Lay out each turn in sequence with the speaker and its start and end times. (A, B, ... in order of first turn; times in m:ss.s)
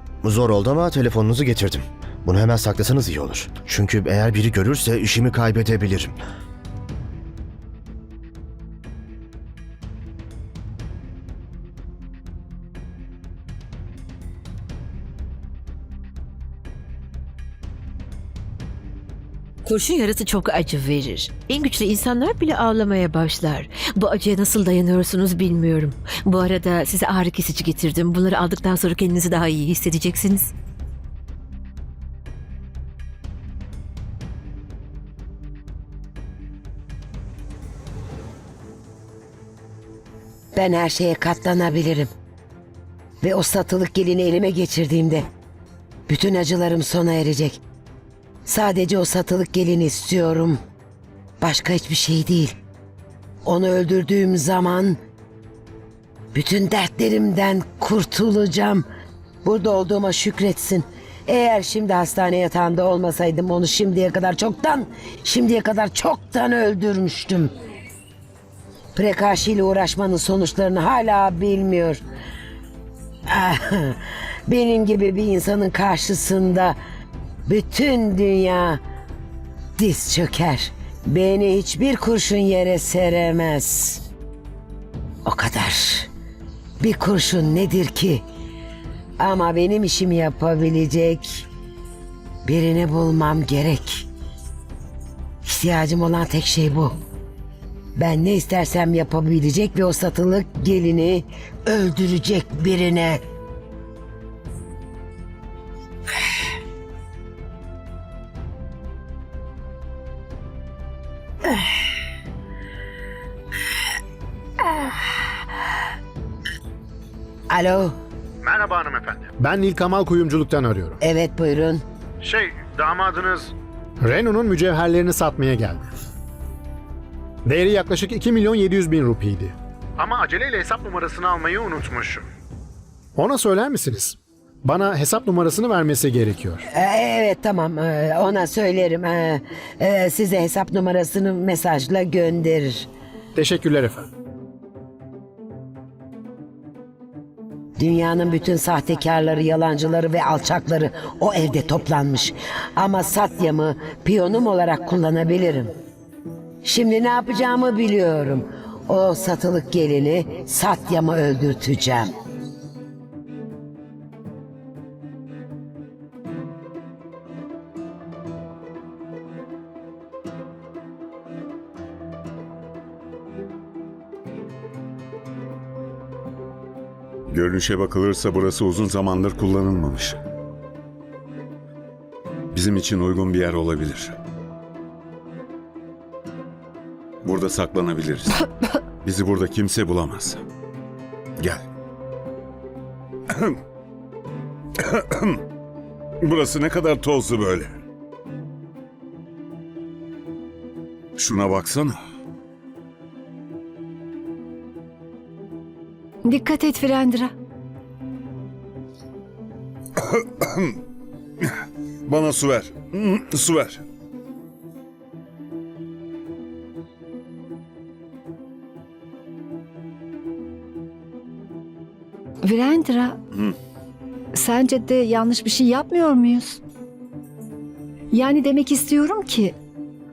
0:00.2-0:06.2 A
0:19.7-0:30.5 B
0:40.5-0:42.1 C
0:43.2-0:45.2 C
0:46.1-0:47.6 C
0:48.5-0:50.6 C
0:51.4-0:52.6 C
0:53.4-0:55.0 C
0:56.3-0:58.8 C
0:59.4-1:07.5 C
1:09.0-1:12.0 C
1:13.3-1:16.8 C
1:17.5-1:18.8 C
1:19.8-1:24.0 C
1:25.2-1:26.1 C
1:26.8-1:28.2 C
1:29.2-1:31.5 C
1:32.4-1:34.1 C
1:35.4-1:37.0 C
1:38.0-1:43.2 C
1:57.5-1:57.9 C
1:58.4-2:01.0 D
2:01.0-2:01.8 C
2:02.2-2:05.8 D
2:07.5-2:12.2 D
2:13.2-2:16.6 D
2:16.7-2:22.9 C
2:23.4-2:24.1 D
2:27.8-2:35.7 C
2:36.6-2:42.1 C
2:57.3-3:00.2 E
3:02.5-3:04.2 E
3:07.2-3:08.5 E
3:09.0-3:10.4 E
3:14.8-3:15.4 E
3:16.2-3:17.7 E
3:21.2-3:22.0 E
3:26.2-3:27.3 F
3:30.0-3:30.8 E
3:32.1-3:33.8 E
3:42.4-3:43.2 F
3:44.3-3:46.6 F
3:48.1-3:49.6 F